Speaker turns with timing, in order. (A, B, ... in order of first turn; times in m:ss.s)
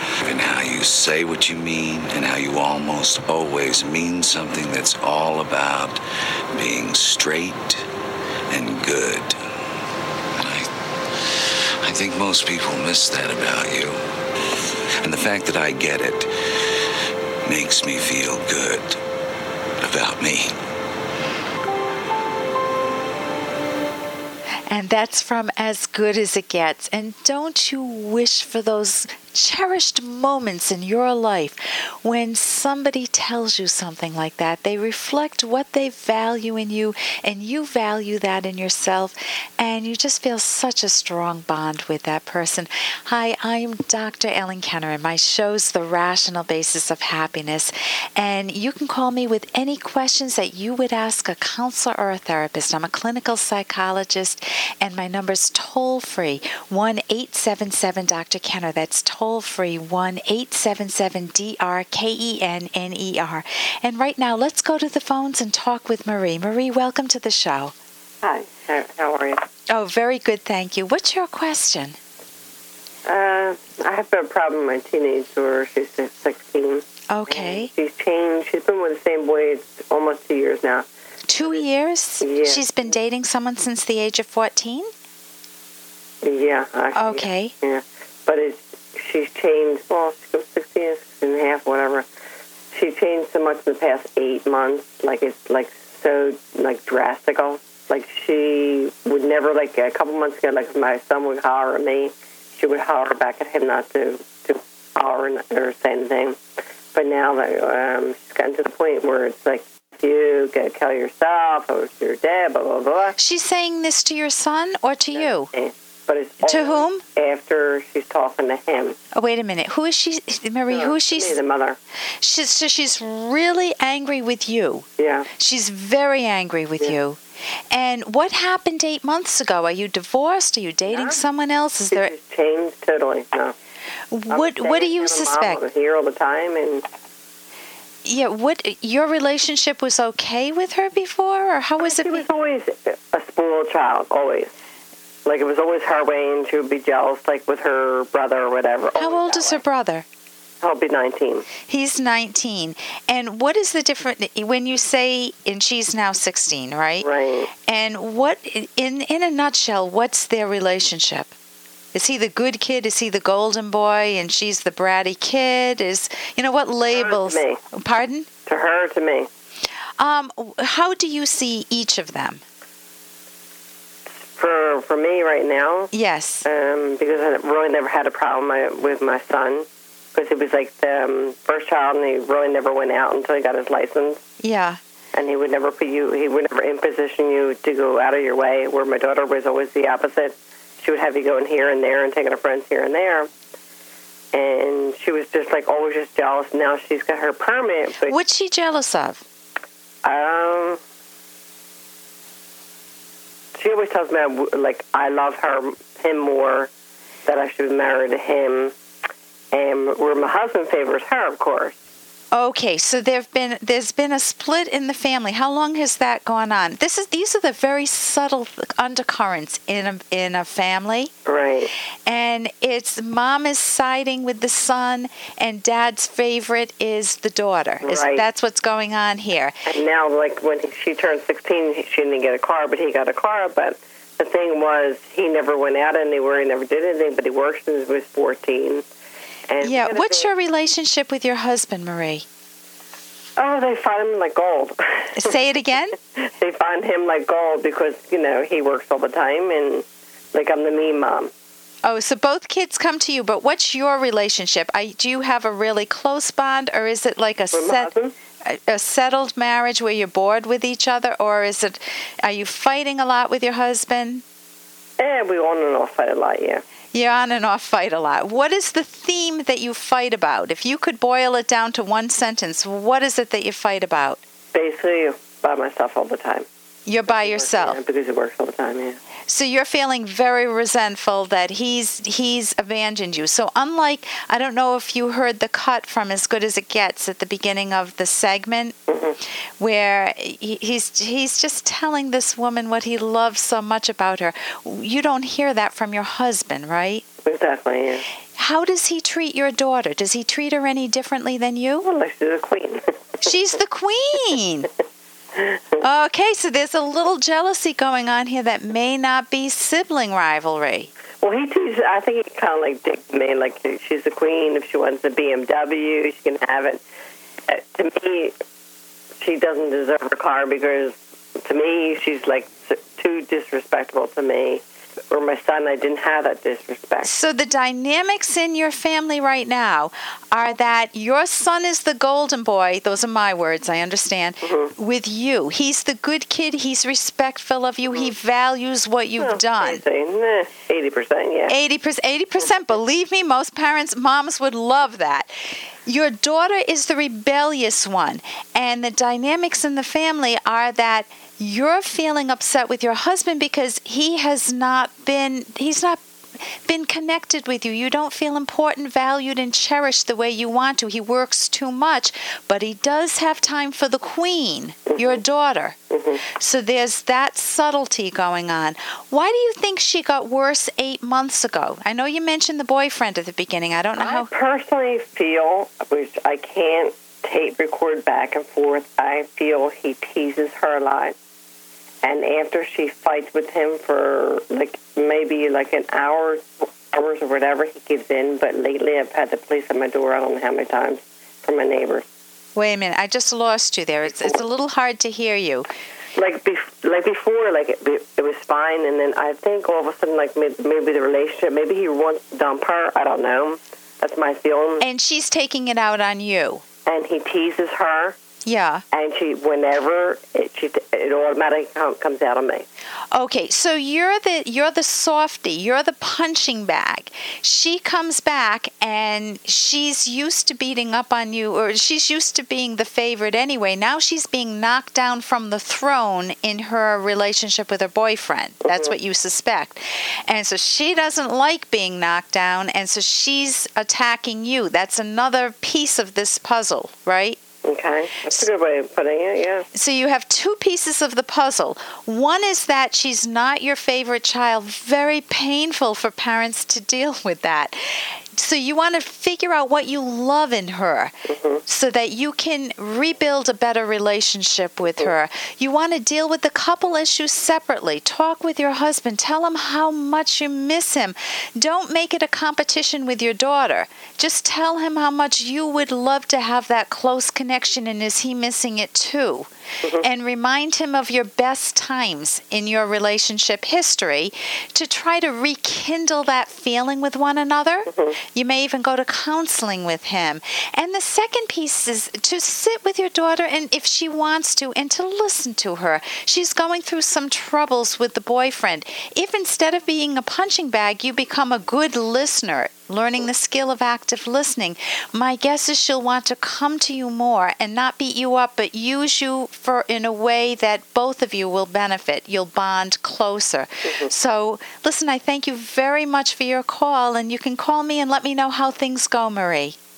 0:00.2-0:06.0 A
0:06.5-0:07.8 A
0:08.5-0:09.4 A
0:10.3-0:10.7 A
0:11.3-0:14.0 A
0:15.0-0:16.3 A
0:17.4-0:19.0 A
0:19.8-0:20.5 A
0:24.7-1:07.7 B
1:08.2-1:09.4 C
1:09.7-1:12.0 B
1:13.0-1:20.9 C
1:17.1-1:17.7 B
1:21.3-1:24.9 B
1:22.2-1:22.9 C
1:26.2-1:32.0 C
1:26.9-1:27.5 B
1:32.7-1:46.4 C
1:46.9-1:53.2 C
1:53.2-1:55.5 B
1:55.2-1:59.0 C
1:56.4-1:57.0 B
1:59.1-2:01.4 B
2:00.7-2:01.8 C
2:02.2-2:04.8 B
2:05.0-2:05.3 C
2:05.4-2:07.2 B
2:07.7-2:12.1 B
2:10.9-2:11.2 C
2:11.9-2:13.5 C
2:14.1-2:15.6 B
2:14.3-2:16.8 C
2:18.0-2:22.2 B
2:21.8-2:24.5 C
2:25.2-2:29.6 C
2:29.0-2:30.0 B
2:30.6-2:31.4 C
2:31.7-2:37.1 B
2:37.0-2:37.5 C
2:37.7-2:41.3 B
2:41.9-2:48.3 B
2:46.9-2:47.6 C
2:48.4-2:49.3 C
2:50.0-2:52.4 B
2:54.3-2:55.9 C
2:55.9-2:56.4 B
2:56.4-3:04.2 C
3:04.4-3:04.8 B
3:05.1-3:13.3 C
3:14.3-3:18.2 C
3:18.0-3:19.2 B
3:20.0-3:20.8 C
3:23.6-3:26.7 C
3:27.2-3:28.7 C
3:29.5-3:31.7 C
3:32.3-3:41.1 B
3:41.2-3:41.7 C
3:42.0-3:49.6 B
3:47.8-3:48.3 C
3:49.6-3:58.8 C
3:59.5-4:00.3 C
3:59.6-4:02.2 B
4:03.4-4:05.3 C
4:05.2-4:06.0 B
4:06.3-4:11.3 C
4:11.8-4:17.9 B
4:17.5-4:18.1 C
4:18.4-4:24.2 B
4:25.0-4:26.6 C
4:26.9-4:34.2 B
4:34.5-4:36.5 C
4:36.8-4:37.8 B
4:37.0-4:39.0 C
4:39.3-4:48.8 B
4:48.9-4:49.2 C
4:49.6-4:57.0 B
4:57.2-4:58.0 C
4:58.4-5:01.8 B
5:01.8-5:02.8 C
5:03.2-5:04.7 B
5:05.8-5:10.9 B
5:11.2-5:16.8 C
5:17.5-5:18.3 C
5:19.2-5:27.1 C
5:27.0-5:39.8 B
5:34.4-5:34.7 C
5:39.2-5:41.5 C
5:41.5-6:05.8 B
6:04.9-6:05.2 C
6:05.9-6:06.2 C
6:06.4-6:14.3 B
6:14.0-6:21.2 C
6:22.0-6:32.0 C
6:32.5-6:35.6 B
6:34.0-6:34.4 C
6:36.1-6:44.8 C
6:44.8-6:46.6 B
6:46.8-6:48.2 C
6:48.4-6:48.8 B
6:48.9-6:52.6 C
6:53.1-7:17.4 B
7:08.6-7:08.9 C
7:17.6-7:19.7 C
7:19.7-8:29.8 B
7:31.3-7:31.6 C
7:57.9-7:58.2 C